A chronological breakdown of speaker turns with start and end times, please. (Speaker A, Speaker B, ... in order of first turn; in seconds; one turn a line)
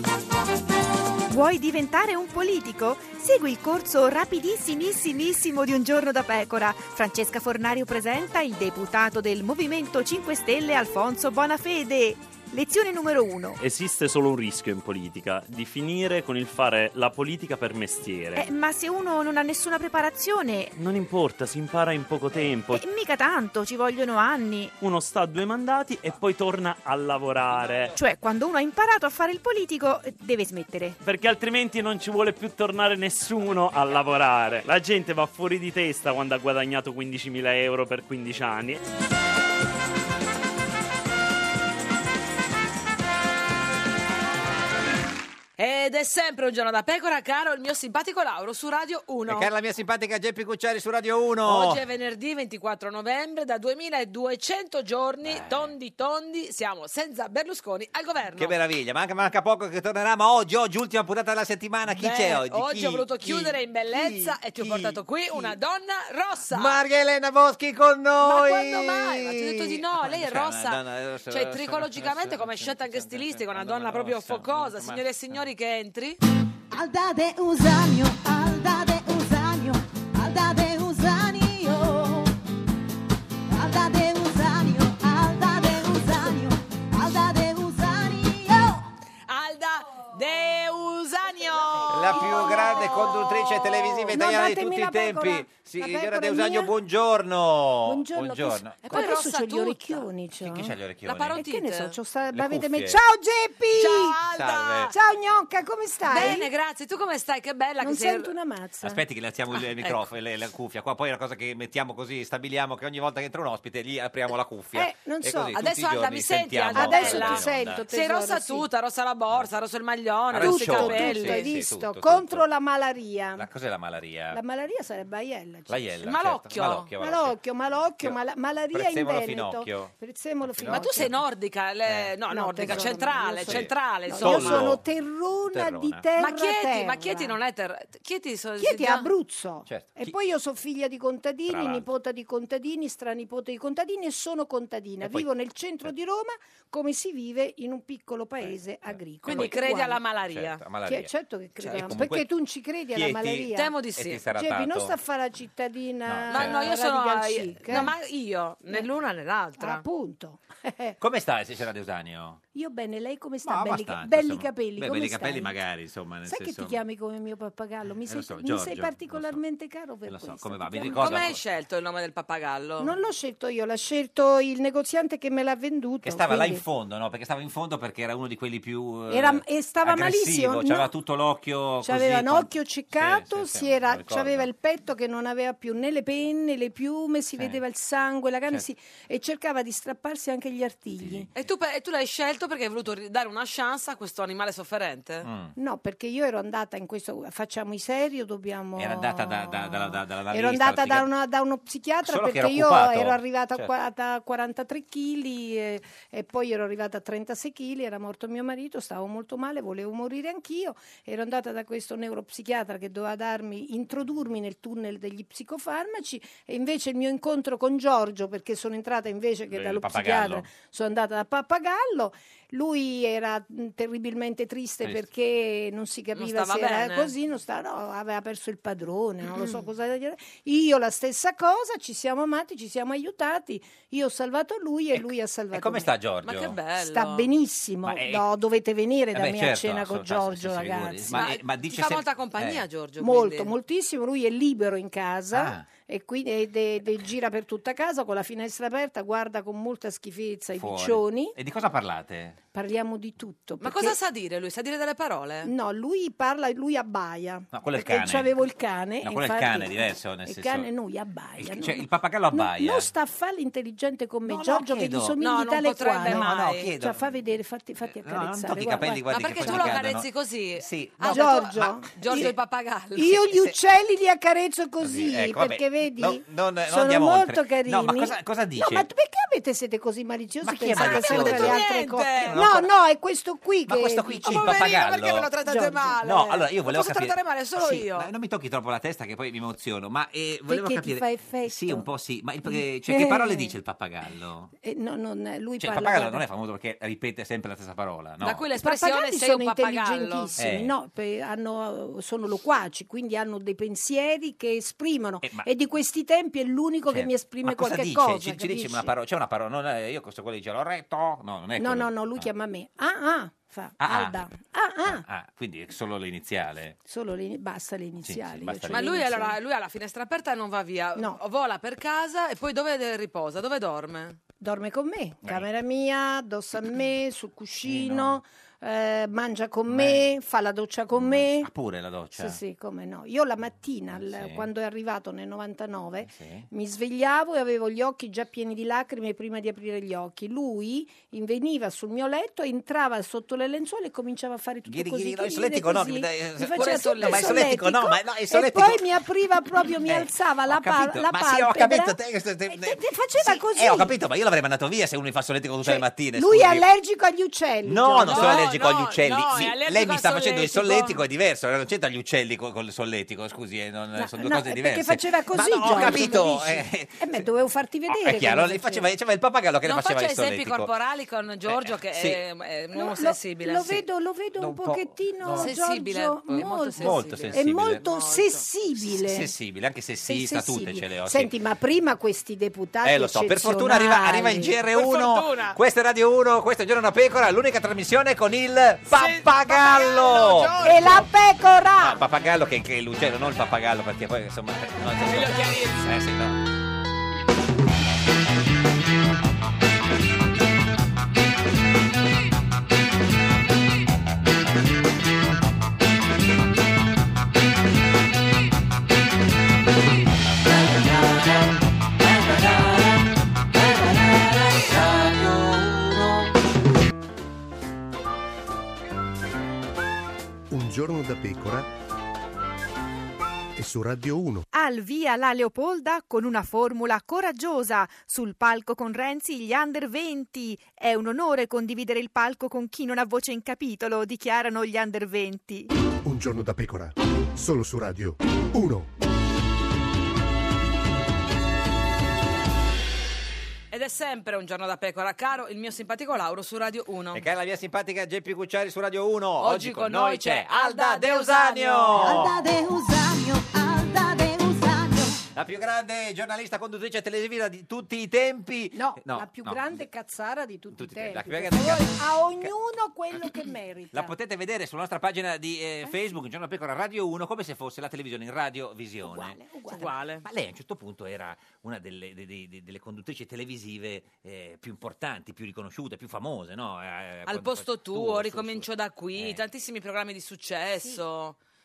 Speaker A: 1.3-13.6
Speaker B: 13.6-18.5
Speaker A: 18.3-20.7
Speaker B: 20.8-22.8
Speaker A: 22.7-24.7
Speaker B: 24.8-28.0
Speaker C: 27.6-27.8
Speaker A: 27.9-31.0
Speaker B: 31.0-38.8
Speaker D: 45.6-49.5
Speaker C: 49.3-51.8
Speaker D: 51.4-58.5
Speaker C: 55.2-55.7
Speaker C: 58.4-65.5
Speaker D: 61.9-66.8
Speaker C: 66.5-75.4
Speaker D: 68.2-76.2
Speaker E: 76.7-82.3
Speaker E: 83.5-88.8
Speaker D: 89.3-93.9
Speaker C: 91.9-98.8
Speaker F: 92.0-96.7
Speaker F: 97.8-100.8
Speaker D: 98.8-100.1
Speaker C: 100.4-101.4
Speaker D: 101.0-102.0
Speaker F: 101.3-104.2
Speaker C: 102.3-103.0
Speaker D: 103.7-104.9
Speaker C: 104.3-104.9
Speaker F: 104.9-106.5
Speaker D: 106.1-108.3
Speaker F: 107.8-109.0
Speaker C: 108.8-117.8
Speaker F: 114.7-115.6
Speaker D: 115.5-121.5
Speaker F: 116.7-118.7
Speaker C: 120.3-122.5
Speaker F: 120.4-123.5
Speaker C: 123.3-124.4
Speaker F: 124.3-125.8
Speaker C: 125.7-128.2
Speaker D: 126.0-126.9
Speaker F: 127.0-131.2
Speaker C: 128.7-129.9
Speaker C: 130.4-131.1
Speaker D: 130.7-134.7
Speaker F: 132.3-137.4
Speaker C: 132.6-132.9
Speaker C: 133.4-134.8
Speaker C: 135.5-136.1
Speaker D: 136.2-139.1
Speaker F: 138.6-150.0
Speaker C: 139.7-140.1
Speaker C: 141.5-141.9
Speaker C: 145.0-145.3
Speaker C: 148.4-149.6
Speaker D: 149.2-150.6
Speaker C: 150.3-152.3
Speaker F: 150.8-153.7
Speaker C: 152.9-154.9
Speaker D: 153.5-154.2
Speaker F: 154.3-157.9
Speaker C: 156.1-156.7
Speaker D: 156.3-159.8
Speaker F: 159.6-161.0
Speaker C: 161.0-162.4
Speaker F: 162.5-165.6
Speaker C: 163.4-166.8
Speaker F: 166.2-171.2
Speaker C: 168.1-169.4
Speaker C: 170.1-171.4
Speaker D: 170.9-172.9
Speaker F: 172.8-176.6
Speaker C: 176.0-184.5
Speaker F: 179.1-180.9
Speaker F: 181.8-191.3
Speaker C: 191.0-191.3
Speaker D: 191.3-195.3
Speaker C: 195.2-195.5
Speaker F: 195.6-235.9
Speaker C: 198.8-201.1
Speaker C: 202.0-203.7
Speaker C: 219.5-220.5
Speaker D: 226.1-227.1
Speaker C: 234.9-236.6
Speaker D: 236.2-237.3
Speaker F: 236.7-241.3
Speaker C: 237.8-238.2
Speaker C: 239.1-242.6
Speaker D: 241.1-243.5
Speaker F: 243.0-251.3
Speaker C: 245.3-245.7
Speaker C: 250.6-252.4
Speaker F: 252.5-254.0
Speaker D: 253.6-255.5
Speaker F: 255.4-269.8
Speaker C: 257.5-258.3
Speaker C: 259.0-260.7
Speaker C: 261.4-262.9
Speaker C: 264.2-265.2
Speaker D: 265.2-266.7
Speaker C: 266.1-267.1
Speaker C: 267.8-272.3
Speaker D: 269.1-273.3
Speaker F: 271.0-272.3
Speaker F: 272.9-284.7
Speaker C: 273.3-273.5
Speaker C: 274.8-278.9
Speaker C: 280.4-281.6
Speaker D: 280.7-282.4
Speaker C: 282.2-282.7
Speaker C: 283.7-285.3
Speaker D: 284.2-288.1
Speaker F: 285.4-286.0
Speaker C: 286.0-294.5
Speaker F: 290.5-291.9
Speaker F: 292.5-293.5
Speaker F: 294.6-296.2
Speaker C: 295.6-298.4
Speaker D: 298.2-300.3
Speaker F: 298.5-308.9
Speaker C: 300.4-300.7
Speaker C: 305.2-305.5
Speaker C: 306.9-312.3
Speaker F: 311.6-315.0
Speaker C: 313.8-314.2
Speaker C: 314.8-316.8
Speaker F: 316.8-319.4
Speaker C: 318.0-319.0
Speaker D: 318.7-324.2
Speaker F: 324.4-331.5
Speaker C: 327.6-328.2
Speaker C: 329.7-330.0
Speaker C: 330.9-332.4
Speaker F: 332.1-353.9
Speaker C: 333.9-334.5
Speaker C: 336.1-336.5
Speaker C: 344.6-348.9
Speaker D: 346.5-347.5
Speaker C: 349.8-356.6
Speaker F: 355.6-358.5
Speaker C: 357.6-367.2
Speaker D: 358.1-360.9
Speaker F: 363.9-368.9
Speaker C: 367.9-370.7
Speaker D: 369.6-373.8
Speaker C: 371.4-372.2
Speaker F: 372.7-379.3
Speaker C: 374.4-375.5
Speaker D: 375.4-378.4
Speaker C: 376.4-377.8
Speaker C: 378.9-381.3
Speaker F: 380.0-384.6
Speaker C: 382.8-390.9
Speaker D: 384.7-385.6
Speaker D: 388.9-391.1
Speaker F: 390.6-392.0
Speaker C: 391.8-396.4
Speaker D: 394.9-395.9
Speaker G: 420.5-421.7
Speaker G: 423.6-424.5
Speaker A: 424.5-435.7
Speaker G: 436.0-438.9
Speaker D: 443.7-447.2
Speaker C: 447.1-452.4
Speaker D: 449.4-452.2
Speaker E: 451.9-455.2
Speaker C: 455.3-459.8
Speaker F: 458.7-464.1
Speaker C: 460.7-462.5
Speaker C: 463.9-469.4
Speaker F: 469.0-469.9
Speaker D: 469.7-470.2
Speaker C: 470.2-479.4
Speaker D: 477.3-481.4